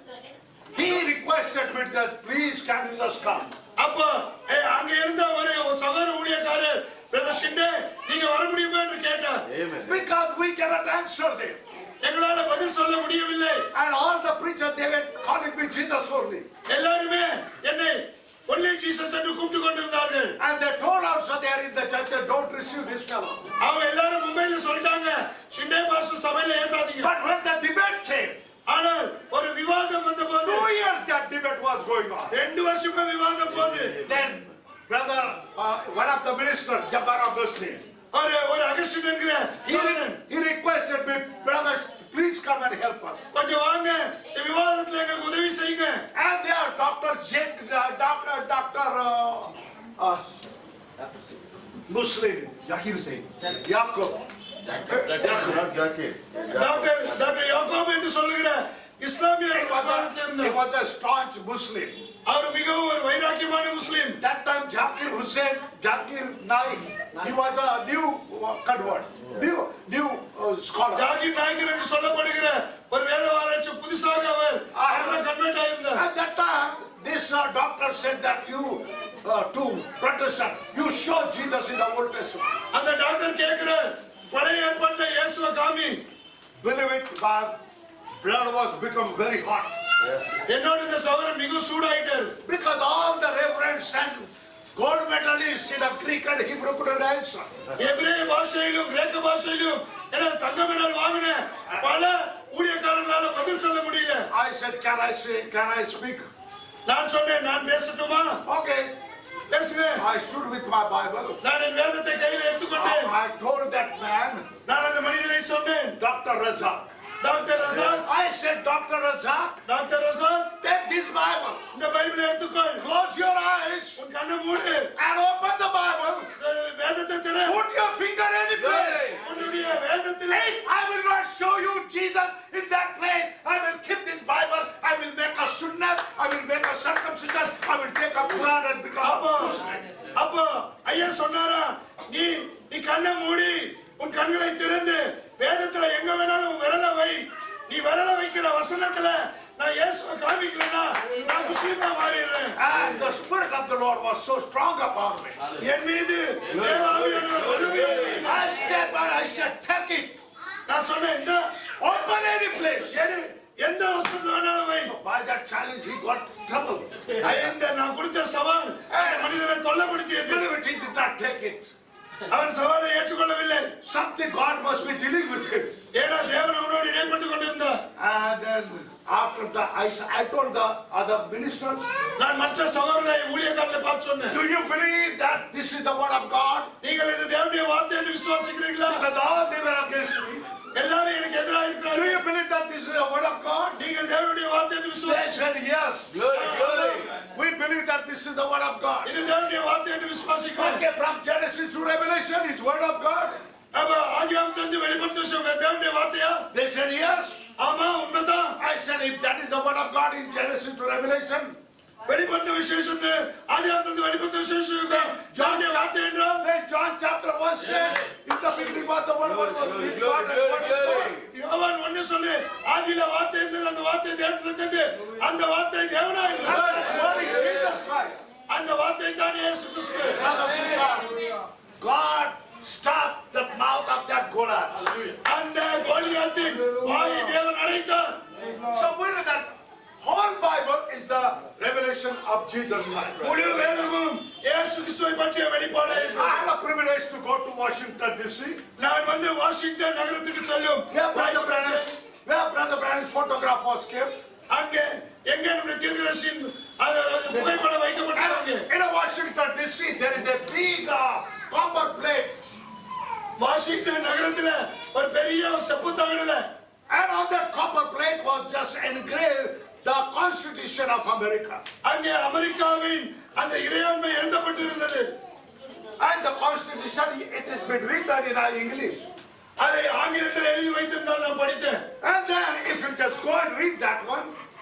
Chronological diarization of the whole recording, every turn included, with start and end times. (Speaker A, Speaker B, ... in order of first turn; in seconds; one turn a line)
Speaker A: 0.7-3.5
Speaker B: 3.8-9.4
Speaker C: 9.5-9.9
Speaker A: 9.8-11.6
Speaker B: 12.0-13.7
Speaker A: 13.7-16.4
Speaker B: 16.7-20.4
Speaker A: 20.4-23.5
Speaker B: 23.6-27.1
Speaker A: 27.0-28.4
Speaker B: 28.7-30.7
Speaker A: 30.4-32.4
Speaker B: 32.3-34.0
Speaker C: 33.6-34.0
Speaker A: 34.0-37.8
Speaker B: 38.1-40.2
Speaker A: 39.6-43.2
Speaker B: 43.3-46.0
Speaker A: 46.1-50.2
Speaker A: 51.9-54.2
Speaker C: 54.7-57.0
Speaker A: 55.0-55.6
Speaker B: 56.5-60.6
Speaker A: 59.5-62.0
Speaker B: 62.2-64.2
Speaker A: 64.2-71.1
Speaker B: 70.9-76.0
Speaker A: 74.7-75.3
Speaker A: 75.9-82.5
Speaker B: 82.7-86.0
Speaker A: 86.6-87.5
Speaker A: 88.2-89.7
Speaker B: 90.4-92.3
Speaker A: 92.4-97.5
Speaker B: 97.8-104.3
Speaker A: 104.3-106.2
Speaker B: 106.8-108.4
Speaker A: 108.5-108.9
Speaker B: 109.5-110.0
Speaker A: 110.0-111.4
Speaker B: 111.4-113.1
Speaker A: 112.8-114.5
Speaker B: 114.7-116.0
Speaker A: 116.0-116.9
Speaker B: 117.2-118.0
Speaker A: 117.8-119.6
Speaker B: 119.7-120.5
Speaker A: 120.6-121.6
Speaker B: 121.7-122.8
Speaker A: 122.8-124.0
Speaker B: 124.0-124.9
Speaker A: 125.0-126.3
Speaker B: 126.4-127.6
Speaker A: 127.4-129.2
Speaker C: 128.6-129.2
Speaker B: 129.2-130.6
Speaker A: 130.3-139.8
Speaker B: 139.0-139.6
Speaker B: 140.1-152.6
Speaker A: 152.6-155.4
Speaker B: 155.6-158.5
Speaker C: 156.5-158.2
Speaker A: 158.2-160.1
Speaker B: 160.7-161.5
Speaker A: 161.8-162.9
Speaker B: 162.8-164.9
Speaker A: 164.9-167.3
Speaker B: 167.2-170.4
Speaker A: 168.9-169.3
Speaker A: 170.3-171.7
Speaker B: 172.3-173.7
Speaker A: 173.8-175.7
Speaker B: 175.9-177.8
Speaker A: 178.0-181.8
Speaker B: 182.2-184.4
Speaker A: 184.3-186.7
Speaker B: 186.8-189.0
Speaker A: 188.8-190.4
Speaker B: 190.7-192.2
Speaker A: 191.9-193.8
Speaker B: 193.8-195.3
Speaker A: 195.0-199.1
Speaker C: 196.1-197.1
Speaker B: 196.3-197.1
Speaker B: 199.0-200.8
Speaker A: 200.6-203.4
Speaker B: 203.7-206.4
Speaker A: 206.5-207.4
Speaker B: 207.6-208.6
Speaker A: 208.6-211.6
Speaker B: 212.1-216.4
Speaker A: 214.8-221.2
Speaker C: 219.3-221.2
Speaker B: 221.3-227.2
Speaker A: 226.4-228.2
Speaker C: 226.5-227.7
Speaker B: 228.5-230.4
Speaker A: 230.1-231.2
Speaker A: 231.8-234.8
Speaker B: 235.2-238.2
Speaker A: 238.6-243.4
Speaker B: 243.2-246.4
Speaker A: 246.0-248.6
Speaker B: 248.8-251.9
Speaker A: 250.9-254.2
Speaker B: 254.5-258.7
Speaker A: 258.1-262.5
Speaker B: 263.4-266.5
Speaker A: 266.9-271.6
Speaker B: 271.8-275.1
Speaker A: 276.0-279.0
Speaker B: 279.6-281.8
Speaker A: 282.0-284.3